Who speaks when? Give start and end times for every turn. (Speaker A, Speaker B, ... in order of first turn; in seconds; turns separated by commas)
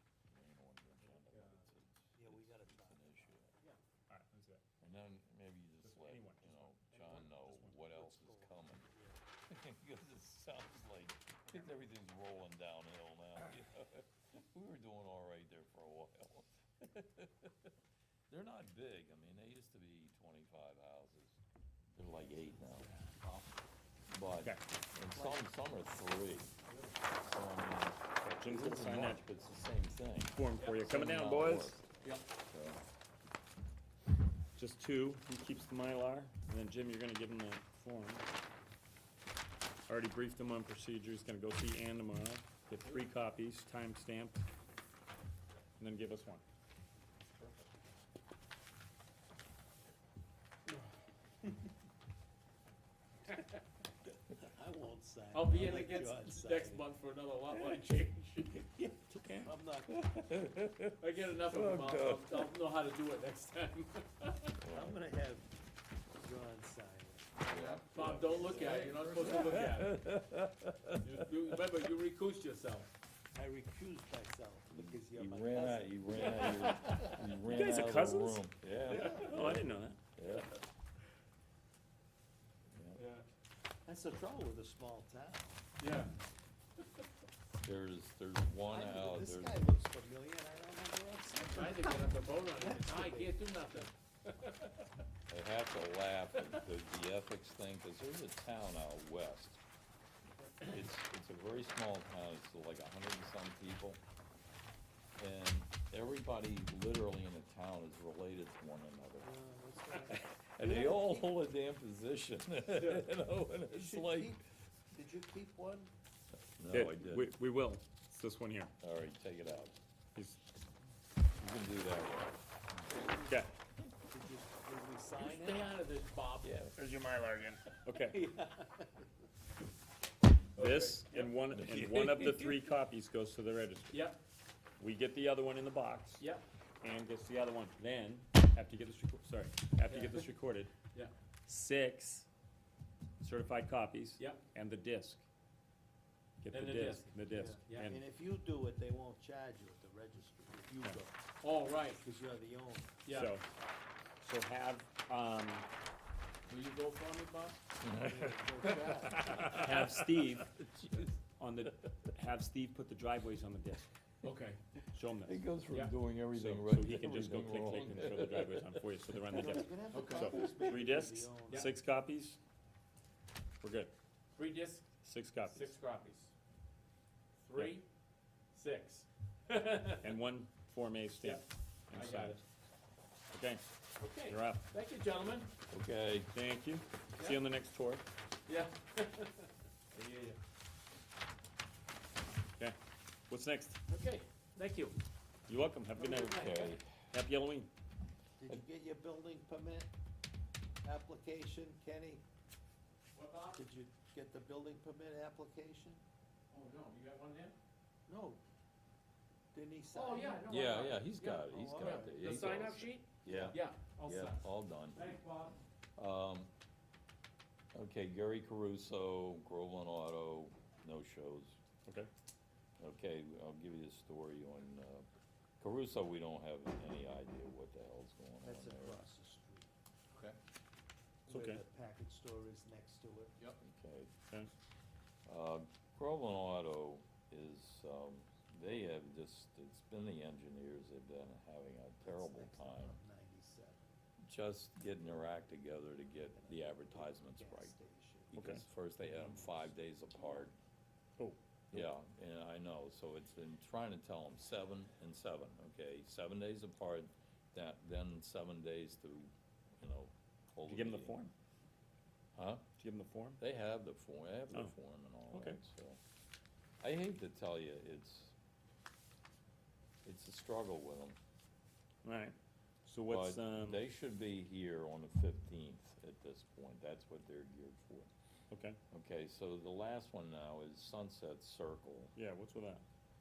Speaker A: 0.3-3.5, Speaker B: 1.3-1.7, Speaker C: 2.1-3.8, Speaker D: 4.1-4.6, Speaker A: 4.8-8.9, Speaker D: 5.8-7.8, Speaker C: 8.0-9.2, Speaker A: 9.5-17.7, Speaker A: 18.3-21.4, Speaker A: 21.9-22.9, Speaker C: 22.2-23.5, Speaker A: 24.1-26.5, Speaker C: 25.1-25.4, Speaker B: 26.7-26.9, Speaker A: 27.2-31.8, Speaker D: 28.4-29.2, Speaker D: 30.3-31.8, Speaker B: 30.6-30.8, Speaker A: 32.4-32.8, Speaker D: 34.5-38.2, Speaker D: 39.9-44.4, Speaker D: 45.8-46.4, Speaker C: 54.4-56.9, Speaker B: 55.3-58.7, Speaker D: 59.1-59.5, Speaker C: 59.4-60.0, Speaker A: 59.9-62.5, Speaker B: 61.0-64.5, Speaker A: 64.6-65.0, Speaker C: 64.7-65.5, Speaker C: 66.1-67.4, Speaker A: 67.4-71.2, Speaker B: 67.5-70.0, Speaker C: 68.4-69.5, Speaker B: 71.0-72.9, Speaker C: 73.3-76.3, Speaker A: 74.7-80.5, Speaker B: 76.1-77.3, Speaker D: 77.4-78.4, Speaker C: 78.8-79.6, Speaker B: 78.9-79.2, Speaker D: 79.1-80.0, Speaker A: 82.7-83.0, Speaker B: 82.9-83.2, Speaker C: 83.8-85.6, Speaker B: 85.8-86.1, Speaker A: 87.6-89.7, Speaker C: 88.7-93.4, Speaker B: 91.4-94.9, Speaker A: 95.3-99.6, Speaker B: 96.3-96.6, Speaker A: 100.6-104.0, Speaker A: 105.2-109.3, Speaker C: 109.2-111.3, Speaker A: 110.0-114.4, Speaker B: 112.8-113.1, Speaker C: 113.7-114.4, Speaker C: 114.9-115.9, Speaker A: 116.5-117.3, Speaker D: 116.7-118.7, Speaker A: 118.8-119.7, Speaker D: 120.1-120.4, Speaker A: 121.4-123.1, Speaker C: 122.9-123.4, Speaker D: 123.2-123.5, Speaker C: 124.1-125.8, Speaker B: 125.2-126.6, Speaker A: 126.4-126.8, Speaker D: 126.8-128.3, Speaker C: 128.0-129.1, Speaker D: 130.5-134.1, Speaker B: 130.6-131.3, Speaker A: 131.5-132.7, Speaker B: 133.9-134.2, Speaker D: 134.8-136.2, Speaker D: 136.8-140.7, Speaker B: 139.9-140.3, Speaker B: 140.9-141.1, Speaker D: 141.4-142.2, Speaker D: 143.2-145.2, Speaker D: 146.4-148.0, Speaker B: 146.5-147.1, Speaker C: 147.3-151.2, Speaker B: 147.6-147.9, Speaker B: 151.4-152.0, Speaker C: 152.0-153.0, Speaker B: 153.1-153.3, Speaker D: 153.1-153.4, Speaker D: 154.2-155.7, Speaker B: 156.5-157.6, Speaker A: 157.8-161.1, Speaker C: 157.9-159.7, Speaker D: 159.2-160.5, Speaker D: 161.2-163.9, Speaker B: 164.2-164.6, Speaker D: 164.9-165.4, Speaker A: 165.2-169.5, Speaker D: 166.3-172.4, Speaker C: 169.3-171.7, Speaker B: 169.9-170.4, Speaker A: 170.4-170.8, Speaker D: 173.6-173.9, Speaker B: 174.3-176.3, Speaker D: 175.0-175.7, Speaker B: 177.4-177.8, Speaker B: 178.5-180.1, Speaker D: 180.0-182.4, Speaker B: 181.2-182.4, Speaker D: 183.3-184.6, Speaker B: 184.0-185.5, Speaker A: 185.7-186.3, Speaker D: 186.3-188.0, Speaker B: 188.5-190.4, Speaker D: 193.3-193.8, Speaker B: 193.9-195.0, Speaker D: 195.5-196.5, Speaker B: 195.9-196.8, Speaker A: 196.2-197.0, Speaker D: 197.1-197.7, Speaker C: 198.4-199.9, Speaker C: 200.8-202.2, Speaker B: 203.1-203.6, Speaker C: 203.6-206.0, Speaker B: 206.5-207.6, Speaker C: 208.1-208.4, Speaker C: 209.5-210.6, Speaker B: 209.9-215.6, Speaker A: 210.4-215.2, Speaker C: 211.5-212.2, Speaker C: 213.2-213.6, Speaker A: 216.0-216.5, Speaker A: 217.7-221.6, Speaker A: 222.8-225.1, Speaker A: 225.6-229.0, Speaker C: 228.4-229.7, Speaker C: 231.3-233.3, Speaker D: 231.3-231.6, Speaker A: 233.6-234.1, Speaker A: 235.2-243.0, Speaker C: 242.0-243.9, Speaker A: 244.2-247.8, Speaker C: 246.3-248.5, Speaker A: 248.3-250.6, Speaker D: 248.3-248.6, Speaker D: 251.2-251.8, Speaker A: 251.7-261.2, Speaker D: 260.7-261.3, Speaker A: 262.4-262.6, Speaker D: 262.8-263.4, Speaker A: 263.4-266.0, Speaker D: 265.3-265.6, Speaker A: 266.8-268.3, Speaker A: 270.0-271.2, Speaker D: 272.0-273.8, Speaker A: 273.1-278.1, Speaker D: 278.5-278.8, Speaker A: 278.9-282.1, Speaker D: 282.1-282.8